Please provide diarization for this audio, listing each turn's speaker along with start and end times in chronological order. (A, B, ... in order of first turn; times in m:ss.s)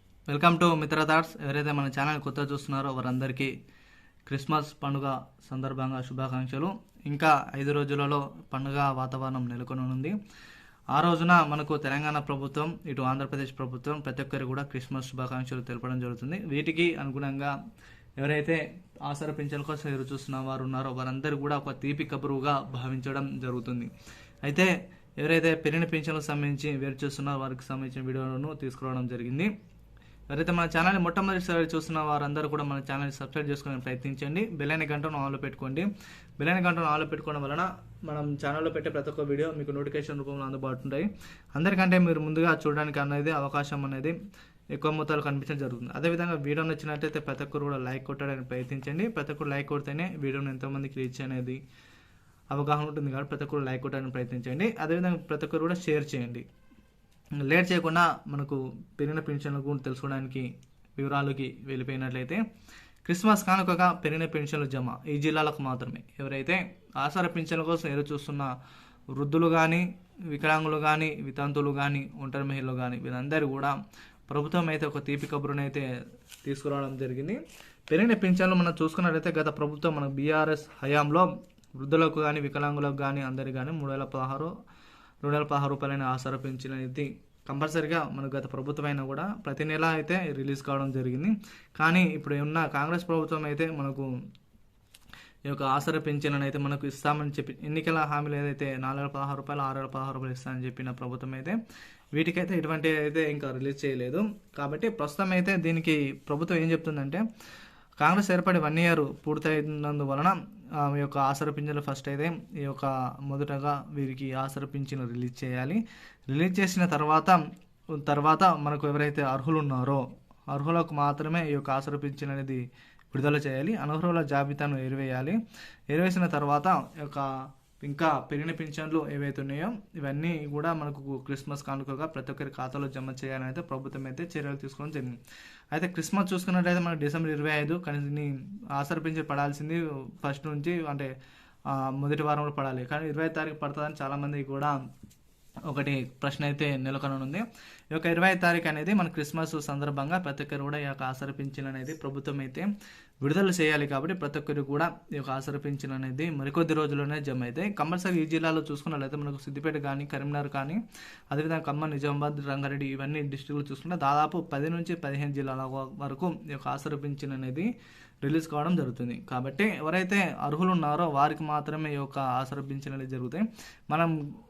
0:00.3-0:03.5 A
0:04.3-0:10.2 A
0:11.0-0:17.5 A
0:18.2-0:23.9 A
0:24.4-0:29.5 A
0:30.3-0:44.2 A
0:44.7-0:51.6 A
0:52.5-0:56.4 A
0:57.5-1:02.4 A
1:03.0-1:08.5 A
1:09.2-1:13.8 A
1:14.3-1:15.8 A
1:16.4-1:17.4 A
1:17.9-1:24.5 A
1:25.2-1:34.1 A
1:35.5-1:41.6 A
1:42.2-1:47.2 A
1:48.0-1:55.8 A
1:56.3-1:57.4 A
1:58.0-2:05.4 A
2:05.9-2:07.3 A
2:07.8-2:15.2 A
2:15.7-2:21.1 A
2:21.7-2:24.8 A
2:25.7-2:32.7 A
2:33.2-2:40.8 A
2:41.3-2:47.7 A
2:48.2-2:54.1 A